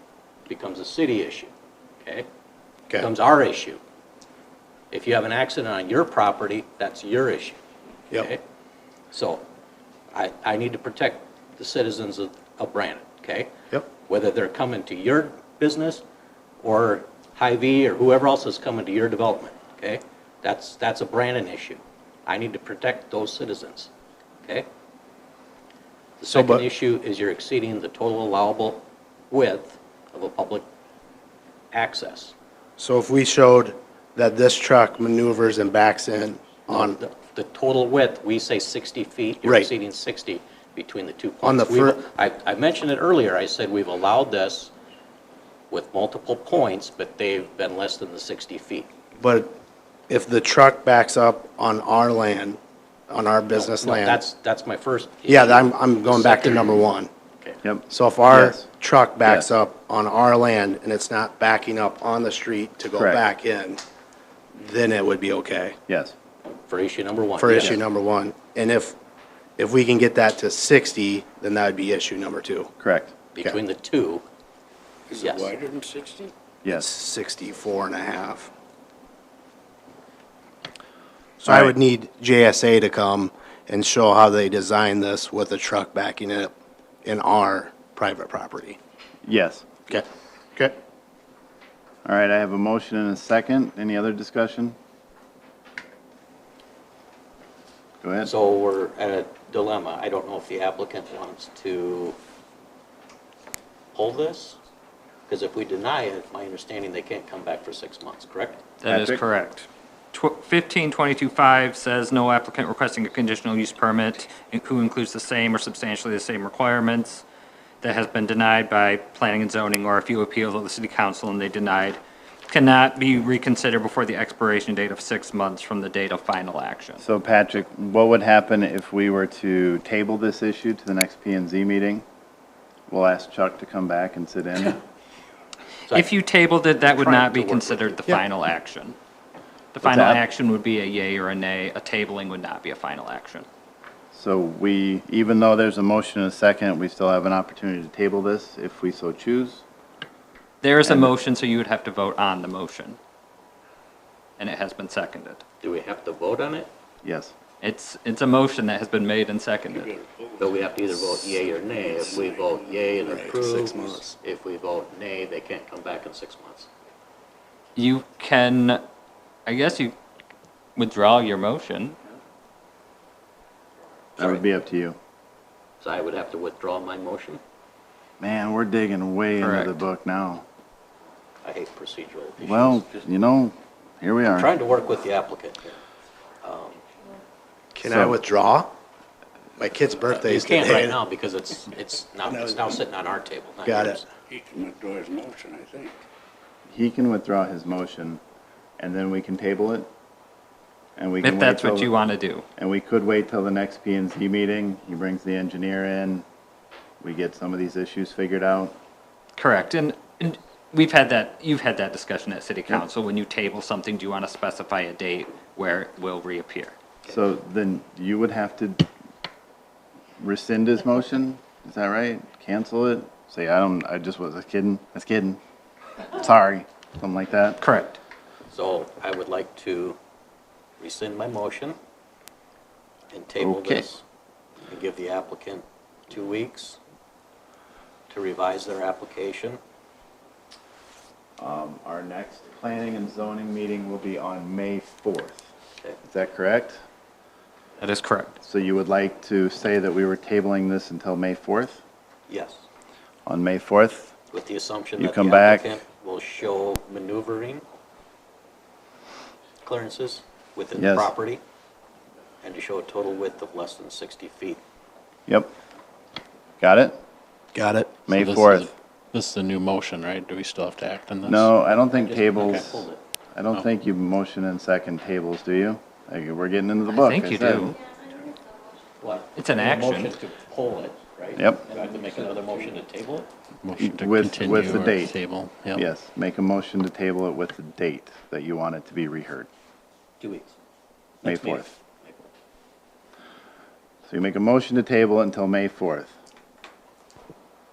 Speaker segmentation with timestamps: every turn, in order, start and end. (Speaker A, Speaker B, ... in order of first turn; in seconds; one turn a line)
Speaker A: 0.5-1.5
Speaker A: 3.0-3.8
Speaker A: 4.9-7.6
Speaker A: 8.1-8.4
Speaker A: 9.1-9.4
Speaker A: 10.1-16.0
Speaker A: 16.6-23.9
Speaker A: 26.2-30.7
Speaker B: 26.3-26.6
Speaker A: 31.7-32.3
Speaker B: 32.8-37.0
Speaker A: 36.7-44.7
Speaker B: 39.4-39.7
Speaker B: 41.4-42.0
Speaker A: 45.7-48.9
Speaker B: 49.2-49.5
Speaker B: 50.1-52.6
Speaker B: 53.1-54.2
Speaker A: 53.6-56.9
Speaker B: 55.3-57.1
Speaker C: 57.6-58.6
Speaker B: 57.9-63.8
Speaker C: 59.2-59.5
Speaker C: 62.9-63.2
Speaker B: 64.6-65.8
Speaker C: 65.9-66.2
Speaker A: 66.7-67.8
Speaker B: 67.4-69.0
Speaker B: 69.6-72.7
Speaker C: 72.8-73.1
Speaker A: 73.3-74.2
Speaker D: 75.1-76.3
Speaker A: 75.2-75.5
Speaker B: 76.7-78.5
Speaker B: 81.4-86.5
Speaker C: 81.5-81.7
Speaker B: 87.0-88.8
Speaker C: 89.2-89.7
Speaker C: 92.0-94.8
Speaker C: 98.0-98.3
Speaker A: 98.2-102.2
Speaker A: 103.9-104.6
Speaker A: 105.3-108.6
Speaker E: 108.8-117.2
Speaker C: 108.9-109.2
Speaker E: 117.8-127.0
Speaker C: 127.0-132.0
Speaker C: 132.9-134.8
Speaker E: 135.9-139.0
Speaker A: 136.9-138.1
Speaker E: 139.7-143.5
Speaker C: 139.8-140.2
Speaker C: 144.1-149.6
Speaker E: 150.6-153.0
Speaker C: 150.8-151.1
Speaker E: 154.4-155.4
Speaker A: 155.6-156.7
Speaker C: 157.0-157.3
Speaker E: 157.6-159.9
Speaker D: 160.0-162.6
Speaker A: 160.4-166.7
Speaker B: 163.1-164.2
Speaker E: 167.8-168.8
Speaker E: 169.5-169.9
Speaker E: 170.8-172.0
Speaker C: 174.2-175.0
Speaker A: 174.2-174.4
Speaker A: 175.8-177.4
Speaker C: 178.2-180.4
Speaker E: 179.4-179.8
Speaker A: 181.4-183.1
Speaker C: 182.4-184.5
Speaker A: 184.3-185.8
Speaker A: 186.4-186.8
Speaker B: 187.8-188.7
Speaker C: 187.8-188.2
Speaker B: 189.6-191.0
Speaker A: 190.2-194.1
Speaker B: 193.7-194.0
Speaker D: 194.3-196.0
Speaker C: 196.7-198.2
Speaker C: 198.8-199.9
Speaker C: 201.0-202.0
Speaker E: 201.2-202.4
Speaker C: 202.6-206.2
Speaker C: 207.0-208.8
Speaker E: 209.4-216.8
Speaker C: 217.1-218.9
Speaker C: 220.2-225.4
Speaker C: 226.1-227.6
Speaker E: 227.6-228.0
Speaker A: 228.5-230.0
Speaker A: 230.8-231.8
Speaker A: 233.1-234.0
Speaker C: 233.4-233.9
Speaker A: 234.7-236.8
Speaker A: 238.1-239.6
Speaker C: 241.4-245.5
Speaker C: 246.1-246.8
Speaker E: 247.8-248.4
Speaker C: 248.4-251.8
Speaker A: 252.3-252.7
Speaker C: 253.3-254.2
Speaker A: 254.3-257.6
Speaker C: 255.0-255.7
Speaker A: 259.6-261.4
Speaker C: 260.8-261.1
Speaker A: 262.4-264.6
Speaker C: 265.3-265.5
Speaker C: 266.6-267.0
Speaker B: 267.6-267.9
Speaker C: 268.1-268.7
Speaker F: 268.1-271.5
Speaker C: 271.3-277.8
Speaker A: 271.9-273.0
Speaker E: 276.9-277.8
Speaker A: 279.0-283.3
Speaker E: 279.4-280.1
Speaker C: 281.4-281.7
Speaker D: 281.7-282.5
Speaker F: 283.6-285.8
Speaker C: 283.8-285.2
Speaker C: 285.8-289.5
Speaker A: 290.2-290.6
Speaker A: 291.2-292.1
Speaker C: 291.2-291.7
Speaker C: 294.1-296.1